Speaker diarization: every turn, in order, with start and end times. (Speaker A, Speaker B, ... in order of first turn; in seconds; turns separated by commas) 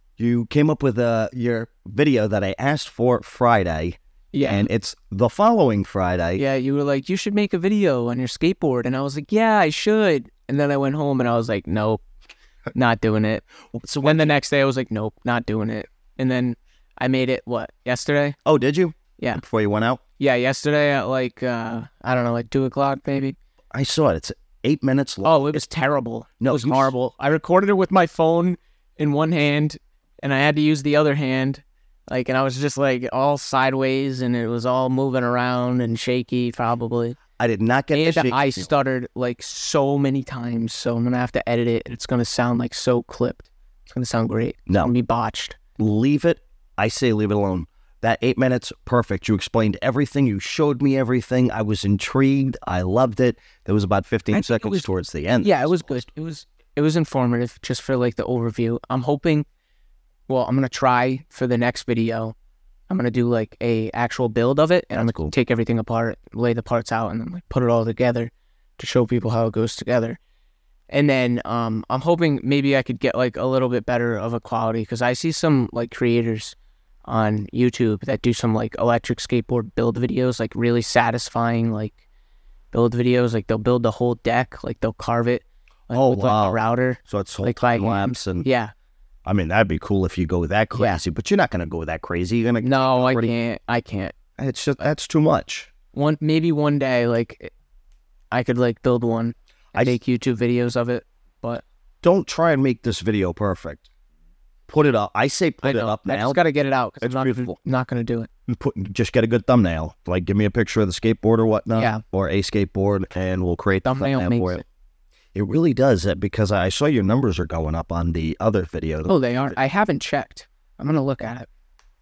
Speaker A: 0.2-6.4, Speaker B: 4.3-4.7, Speaker B: 6.4-12.0, Speaker B: 12.7-13.4, Speaker A: 13.8-14.3, Speaker B: 14.0-18.4, Speaker A: 18.4-20.0, Speaker B: 20.2-23.4, Speaker A: 23.7-25.6, Speaker B: 25.2-37.2, Speaker A: 26.4-26.9, Speaker A: 37.4-38.7, Speaker B: 37.9-45.6, Speaker A: 44.7-44.9, Speaker A: 45.8-56.0, Speaker B: 54.3-54.8, Speaker B: 55.4-59.5, Speaker B: 60.3-62.3, Speaker B: 62.9-70.2, Speaker A: 65.0-65.3, Speaker B: 70.9-76.5, Speaker B: 77.1-82.0, Speaker B: 82.7-88.7, Speaker A: 85.9-88.5, Speaker A: 89.2-93.3, Speaker B: 92.6-94.1, Speaker A: 94.4-95.7, Speaker B: 95.9-97.5, Speaker B: 98.3-101.6, Speaker A: 102.0-103.9, Speaker A: 104.7-106.4, Speaker B: 105.6-108.3, Speaker A: 107.0-107.5, Speaker A: 108.5-114.6, Speaker B: 111.8-112.0, Speaker B: 113.8-114.6, Speaker A: 115.3-119.5, Speaker B: 119.0-121.5